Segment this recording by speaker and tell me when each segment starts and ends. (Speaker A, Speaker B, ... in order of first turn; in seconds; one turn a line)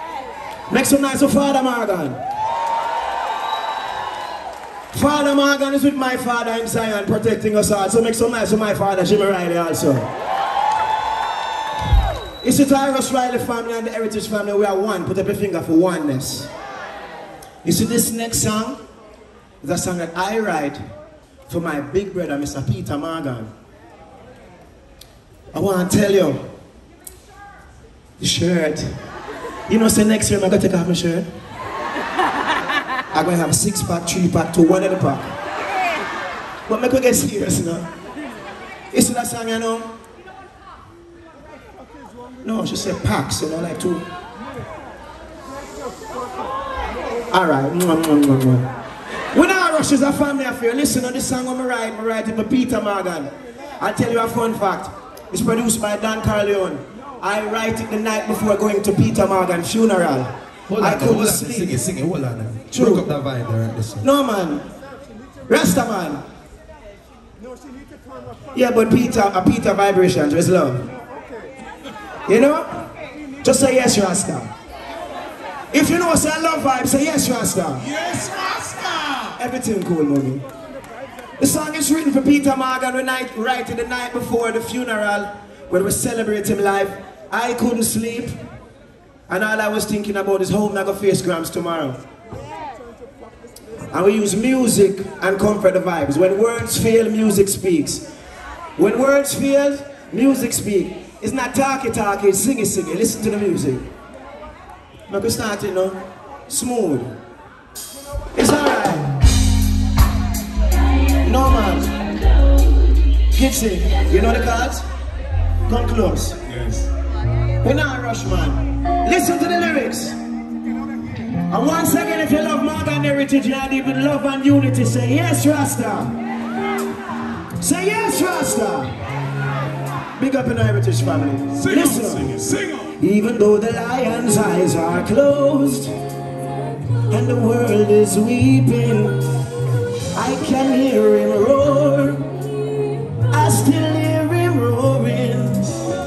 Speaker A: 0.7-2.2
Speaker A: 4.9-10.1
Speaker A: 12.4-16.5
Speaker A: 17.6-18.8
Speaker A: 19.6-20.8
Speaker A: 21.5-23.5
Speaker A: 25.5-26.4
Speaker A: 28.2-29.0
Speaker A: 29.7-31.3
Speaker A: 33.1-35.3
Speaker A: 36.7-37.9
Speaker A: 38.9-39.9
Speaker A: 42.4-44.0
Speaker A: 47.3-48.7
Speaker A: 49.3-61.8
Speaker B: 60.7-64.1
Speaker A: 62.7-63.1
Speaker A: 64.0-64.6
Speaker A: 65.5-66.2
Speaker A: 68.5-70.9
Speaker A: 72.3-72.8
Speaker A: 73.4-74.5
Speaker A: 75.7-77.8
Speaker C: 77.8-79.4
Speaker A: 79.4-80.4
Speaker A: 81.4-88.4
Speaker A: 89.3-92.0
Speaker A: 93.9-98.0
Speaker A: 98.8-103.9
Speaker A: 105.1-107.1
Speaker A: 108.3-109.1
Speaker A: 111.2-112.0
Speaker A: 113.3-114.9
Speaker A: 115.7-116.4
Speaker C: 116.5-116.9
Speaker A: 117.6-120.2
Speaker A: 121.5-126.2
Speaker A: 127.6-128.9
Speaker A: 130.2-132.3
Speaker C: 131.5-132.9
Speaker A: 133.0-135.9
Speaker A: 137.1-139.2
Speaker A: 140.1-142.3
Speaker A: 143.3-145.8